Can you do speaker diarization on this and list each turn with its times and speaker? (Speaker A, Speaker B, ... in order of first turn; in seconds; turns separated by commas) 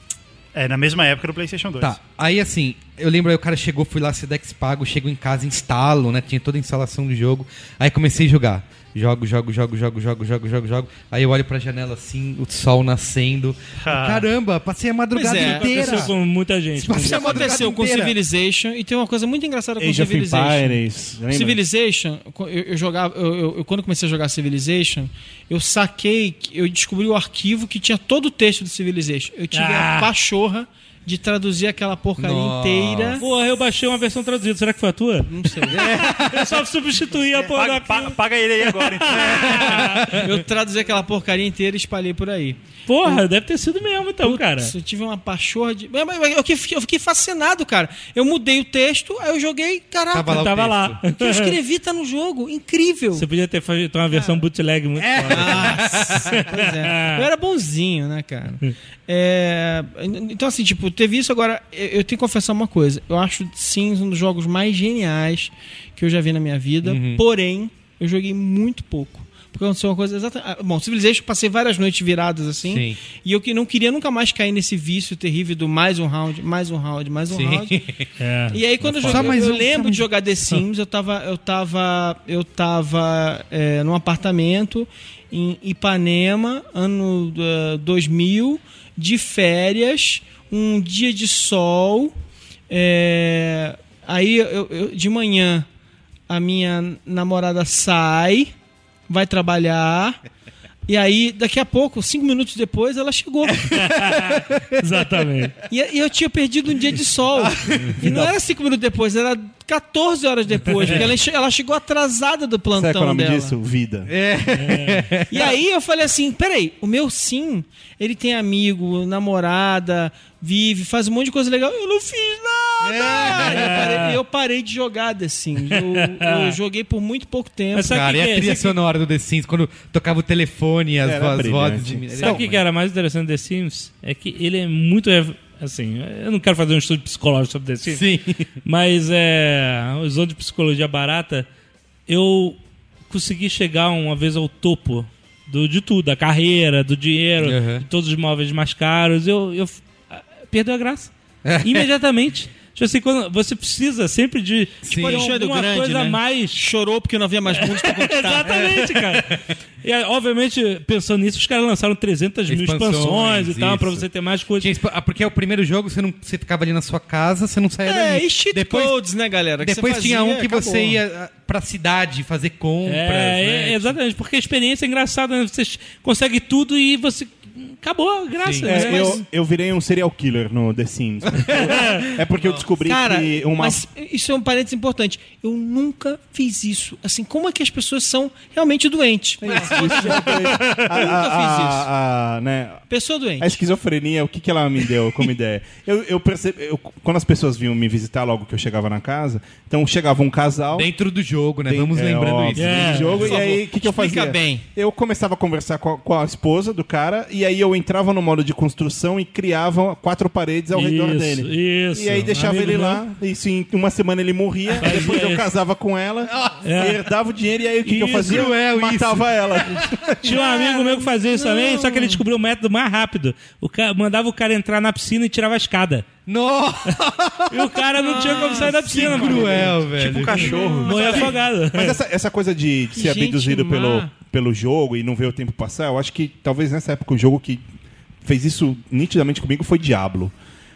Speaker A: 0.5-2.0, Speaker B: 1.8-16.1, Speaker A: 13.8-14.2, Speaker C: 15.1-16.1, Speaker D: 15.2-17.5, Speaker B: 16.7-18.2, Speaker C: 16.9-33.2, Speaker E: 19.8-21.6, Speaker D: 29.5-30.1, Speaker B: 32.2-33.2, Speaker D: 33.2-40.2, Speaker C: 35.2-35.8, Speaker B: 35.7-36.6, Speaker A: 37.4-39.5, Speaker C: 39.3-43.2, Speaker B: 39.4-40.3, Speaker D: 42.9-44.7, Speaker C: 44.2-50.5, Speaker B: 50.1-51.0, Speaker D: 50.3-51.6, Speaker C: 51.1-53.2, Speaker D: 53.1-57.2, Speaker C: 54.1-54.4, Speaker B: 55.0-56.4, Speaker C: 55.3-77.8, Speaker B: 66.8-67.2, Speaker B: 72.6-73.0, Speaker B: 77.3-78.1, Speaker D: 78.2-79.4, Speaker C: 78.5-92.1, Speaker B: 79.0-80.1, Speaker C: 92.7-95.7, Speaker C: 96.3-98.5, Speaker C: 99.1-100.2, Speaker C: 100.9-103.8, Speaker B: 103.7-104.8, Speaker D: 103.7-105.6, Speaker C: 105.7-113.5, Speaker B: 107.3-108.3, Speaker E: 112.7-114.1, Speaker B: 114.0-115.5, Speaker D: 114.5-115.1, Speaker C: 115.3-128.1, Speaker B: 122.8-123.9, Speaker D: 123.3-124.1, Speaker D: 125.7-126.6, Speaker D: 127.7-128.7, Speaker B: 127.8-132.6, Speaker E: 131.0-132.4, Speaker D: 132.2-138.0, Speaker B: 137.8-138.5, Speaker D: 138.6-141.5, Speaker D: 142.1-142.6, Speaker D: 143.1-156.6, Speaker B: 147.4-147.8, Speaker B: 151.4-151.9, Speaker B: 154.8-155.3, Speaker C: 154.9-158.9, Speaker D: 157.5-164.7, Speaker B: 159.1-159.4, Speaker B: 162.5-164.1, Speaker B: 164.6-169.0, Speaker C: 167.8-171.0, Speaker B: 169.6-174.0, Speaker D: 172.8-179.2, Speaker B: 178.4-178.7, Speaker E: 178.7-183.8, Speaker C: 178.8-179.2, Speaker B: 181.3-182.6, Speaker D: 181.6-182.0, Speaker C: 182.8-191.9, Speaker E: 189.4-192.8, Speaker B: 189.9-190.2, Speaker D: 190.1-190.8, Speaker C: 192.9-193.6, Speaker E: 193.4-200.9, Speaker B: 200.7-203.3, Speaker E: 201.7-220.2, Speaker D: 202.5-203.3, Speaker C: 203.2-204.7, Speaker D: 210.7-213.0, Speaker D: 214.8-215.4, Speaker B: 216.3-216.6, Speaker D: 216.6-217.0, Speaker D: 217.8-218.5, Speaker B: 217.9-220.9, Speaker D: 220.2-226.1, Speaker C: 220.5-222.2, Speaker B: 226.2-230.6, Speaker D: 227.5-229.7, Speaker C: 228.1-229.8, Speaker A: 229.9-231.3, Speaker C: 230.3-231.3, Speaker D: 230.8-232.0, Speaker E: 231.0-237.6, Speaker C: 232.9-234.1, Speaker E: 238.2-240.3